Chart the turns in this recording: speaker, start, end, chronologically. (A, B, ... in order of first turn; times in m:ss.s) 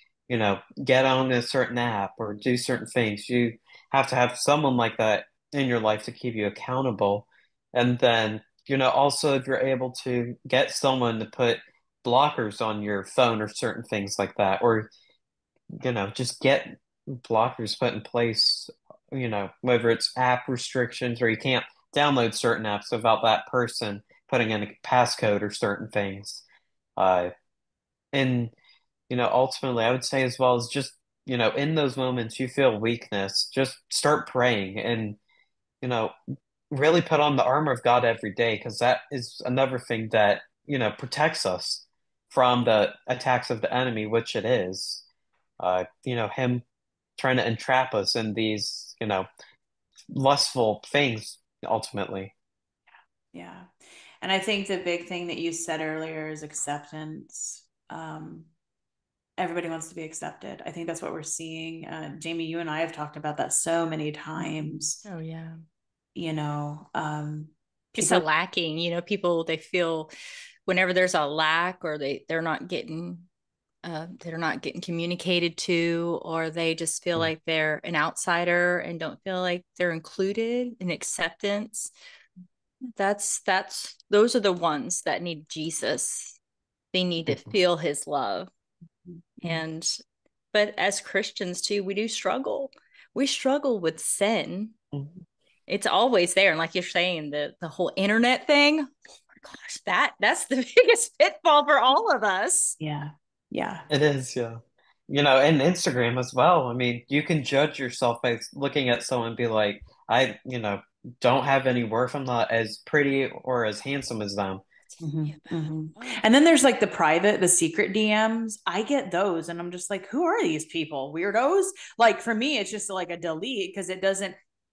0:00.3-0:14.9 A
0:15.7-0:26.4 A
0:27.0-0:27.3 A
0:28.1-0:28.5 A
0:29.1-0:35.2 A
0:35.8-0:36.1 A
0:36.7-0:45.0 A
0:45.6-0:46.6 A
0:47.2-0:49.3 A
0:50.1-0:52.3 A
0:53.3-0:53.7 B
0:54.2-0:58.5 B
0:59.4-1:05.0 B
1:04.4-1:05.6 C
1:06.2-1:08.3 B
1:08.0-1:10.1 C
1:10.7-1:13.3 C
1:13.8-1:21.9 C
1:23.0-1:26.4 C
1:26.9-1:28.5 C
1:29.4-1:30.0 C
1:30.5-1:34.8 C
1:35.7-1:42.8 C
1:42.8-1:43.9 B
1:43.9-1:54.6 A
1:54.9-1:56.2 C
1:55.0-2:04.4 B